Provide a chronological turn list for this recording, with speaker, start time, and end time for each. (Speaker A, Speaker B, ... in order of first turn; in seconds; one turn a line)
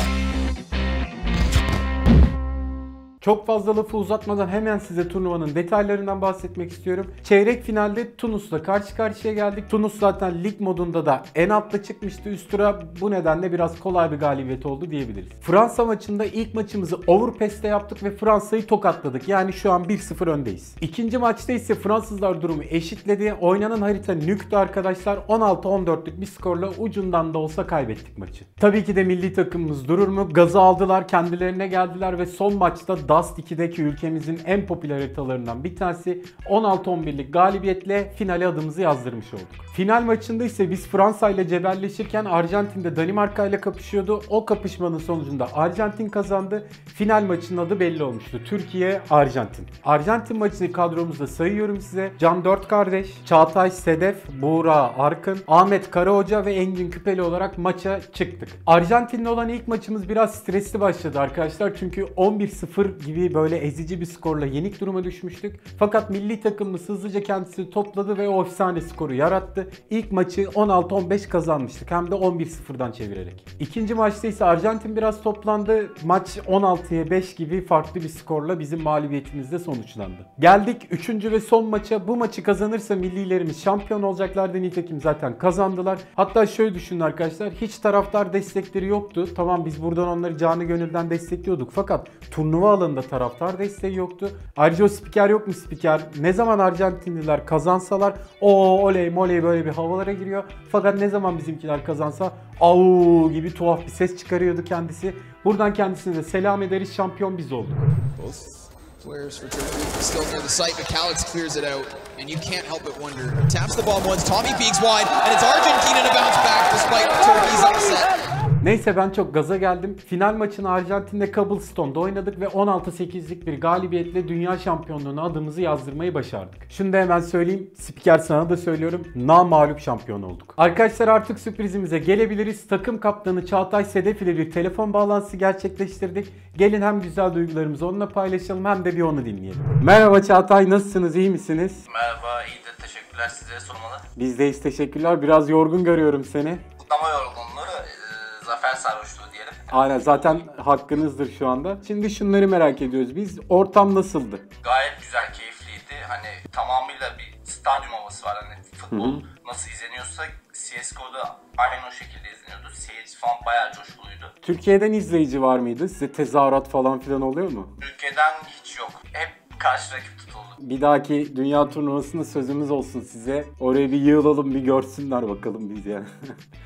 Speaker A: 3.2-107.9
Speaker B: 108.2-108.5
Speaker B: 109.0-118.1
Speaker A: 118.6-141.8
Speaker C: 141.9-144.0
Speaker A: 144.2-146.6
Speaker C: 146.8-150.2
Speaker A: 149.7-154.4
Speaker C: 154.6-164.3
Speaker A: 158.9-159.2
Speaker A: 164.4-167.7
Speaker C: 167.8-170.6
Speaker A: 170.6-176.1